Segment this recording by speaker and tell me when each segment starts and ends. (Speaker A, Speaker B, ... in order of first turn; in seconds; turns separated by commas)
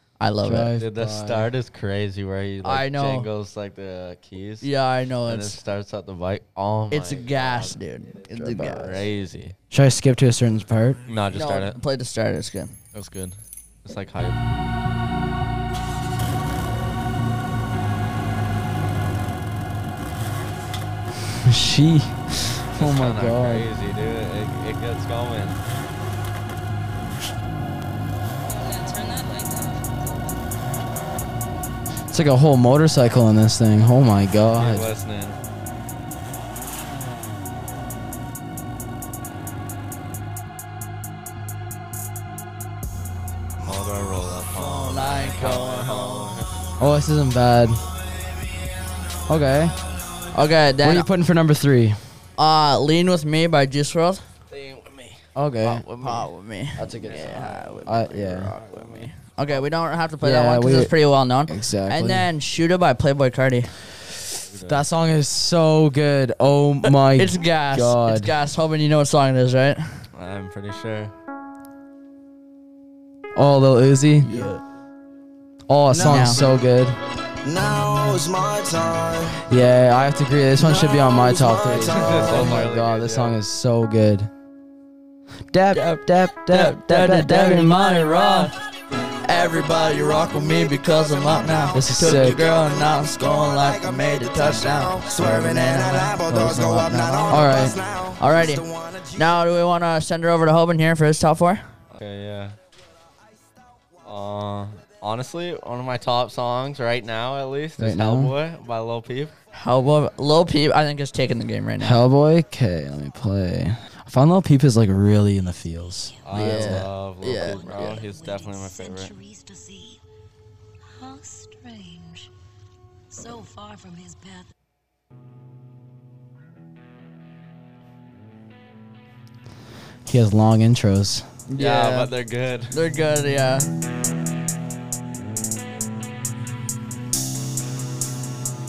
Speaker A: 0.2-0.7, Speaker B: 0.4-1.5, Speaker C: 0.8-4.7, Speaker A: 2.6-3.3, Speaker A: 4.6-5.6, Speaker C: 5.3-7.8, Speaker A: 6.9-9.0, Speaker B: 8.3-9.0, Speaker C: 8.6-9.6, Speaker B: 9.7-11.0, Speaker C: 11.1-11.8, Speaker A: 11.3-12.8, Speaker C: 12.9-14.4, Speaker B: 21.4-23.7, Speaker C: 22.8-25.6, Speaker D: 28.5-30.4, Speaker B: 32.1-34.9, Speaker C: 34.5-35.4, Speaker C: 43.6-46.6, Speaker A: 44.6-46.3, Speaker B: 46.8-47.8, Speaker B: 49.3-49.8, Speaker A: 50.3-51.1, Speaker B: 50.8-52.0, Speaker A: 52.4-54.2, Speaker C: 54.5-56.3, Speaker B: 55.4-55.9, Speaker A: 56.0-63.7, Speaker B: 56.8-58.5, Speaker C: 57.1-59.6, Speaker B: 60.2-60.9, Speaker B: 61.5-62.3, Speaker C: 64.5-64.9, Speaker B: 64.6-68.3, Speaker A: 66.9-70.0, Speaker C: 70.1-71.1, Speaker B: 73.4-74.3, Speaker A: 74.2-74.6, Speaker B: 75.7-77.0, Speaker E: 75.9-76.5, Speaker A: 76.0-76.4, Speaker E: 77.4-79.4, Speaker B: 79.5-84.3, Speaker E: 80.6-82.6, Speaker C: 81.8-83.3, Speaker B: 85.5-88.5, Speaker A: 85.7-88.6, Speaker A: 89.2-97.7, Speaker E: 91.0-99.3, Speaker B: 91.7-92.4, Speaker B: 96.3-97.8, Speaker A: 98.2-98.7, Speaker A: 99.2-101.6, Speaker C: 101.9-102.6, Speaker C: 104.0-109.3, Speaker B: 107.8-108.3, Speaker A: 109.5-112.0, Speaker B: 111.8-116.8, Speaker C: 116.2-119.1, Speaker A: 116.3-118.0, Speaker D: 117.4-120.0, Speaker D: 120.9-122.3, Speaker D: 123.1-124.5, Speaker B: 130.1-131.3, Speaker A: 131.5-132.1, Speaker C: 131.6-132.7, Speaker A: 132.7-133.7